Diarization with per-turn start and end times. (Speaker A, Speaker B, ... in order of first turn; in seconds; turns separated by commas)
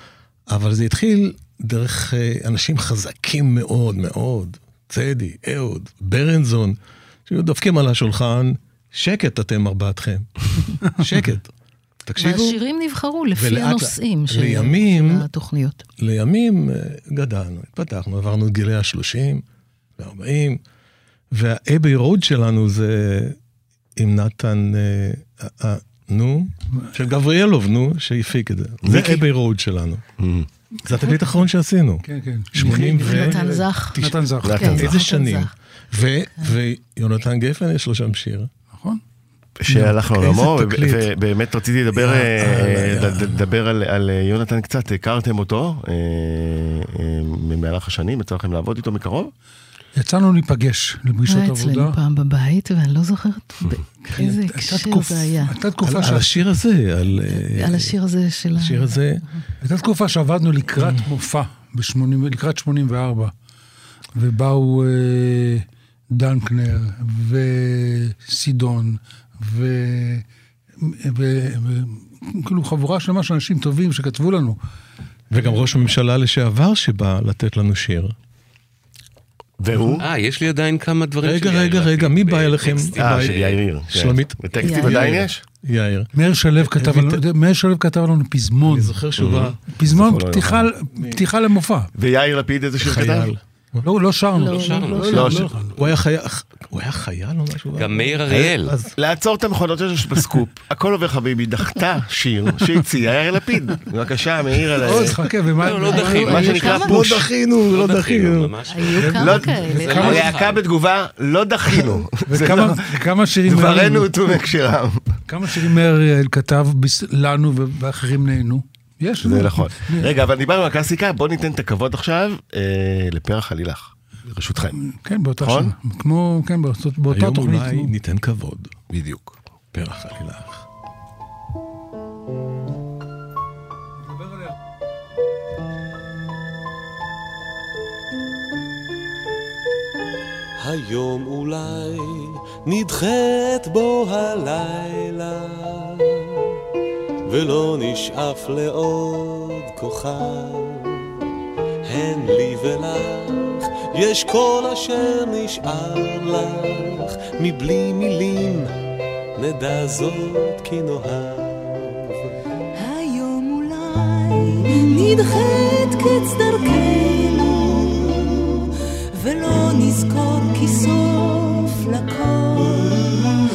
Speaker A: 0.5-11.5, Speaker A: 12.1-12.6, Speaker B: 12.2-15.8, Speaker A: 13.4-15.3, Speaker A: 16.0-19.4, Speaker A: 20.0-20.6, Speaker A: 21.3-23.4, Speaker A: 24.0-30.0, Speaker C: 28.8-29.2, Speaker C: 30.2-30.5, Speaker A: 30.9-34.1, Speaker D: 32.1-33.5, Speaker C: 32.6-32.9, Speaker B: 33.0-35.5, Speaker D: 34.0-34.7, Speaker C: 34.4-34.9, Speaker A: 34.7-38.5, Speaker D: 38.7-39.0, Speaker C: 39.6-49.3, Speaker A: 39.7-41.1, Speaker A: 42.0-42.3, Speaker A: 42.9-43.3, Speaker D: 50.0-52.0, Speaker B: 51.3-55.5, Speaker D: 54.1-56.4, Speaker A: 55.8-57.9, Speaker B: 57.3-59.4, Speaker A: 58.5-59.2, Speaker D: 59.6-63.3, Speaker A: 60.8-61.0, Speaker D: 64.1-70.2, Speaker D: 70.8-74.6, Speaker A: 75.3-78.1, Speaker C: 79.6-80.1, Speaker E: 80.0-83.6, Speaker A: 81.2-86.1, Speaker C: 83.0-85.4, Speaker B: 84.6-85.0, Speaker D: 86.1-89.0, Speaker A: 86.6-87.2, Speaker A: 88.6-89.6, Speaker C: 89.2-90.7, Speaker D: 89.7-91.9, Speaker A: 91.0-91.2, Speaker C: 92.0-93.3, Speaker A: 92.8-93.9, Speaker D: 93.8-95.8, Speaker E: 94.4-95.4, Speaker B: 94.4-95.4, Speaker C: 95.1-95.6, Speaker A: 95.8-99.0, Speaker E: 97.8-98.7, Speaker C: 99.0-105.2, Speaker D: 104.7-106.7, Speaker E: 105.0-106.8, Speaker B: 105.9-107.0, Speaker C: 106.1-107.3, Speaker A: 106.7-108.7, Speaker E: 107.7-109.0, Speaker B: 108.7-110.3, Speaker D: 109.0-110.3, Speaker C: 109.1-115.7, Speaker E: 109.7-110.6, Speaker D: 112.2-114.1, Speaker D: 115.3-120.1, Speaker C: 119.2-124.8, Speaker D: 124.9-127.9, Speaker C: 125.4-125.8, Speaker A: 127.1-128.7, Speaker C: 128.9-129.3, Speaker A: 129.7-130.6, Speaker F: 140.6-146.3, Speaker F: 147.2-151.1, Speaker F: 151.8-158.7, Speaker F: 159.4-162.2, Speaker G: 162.8-173.3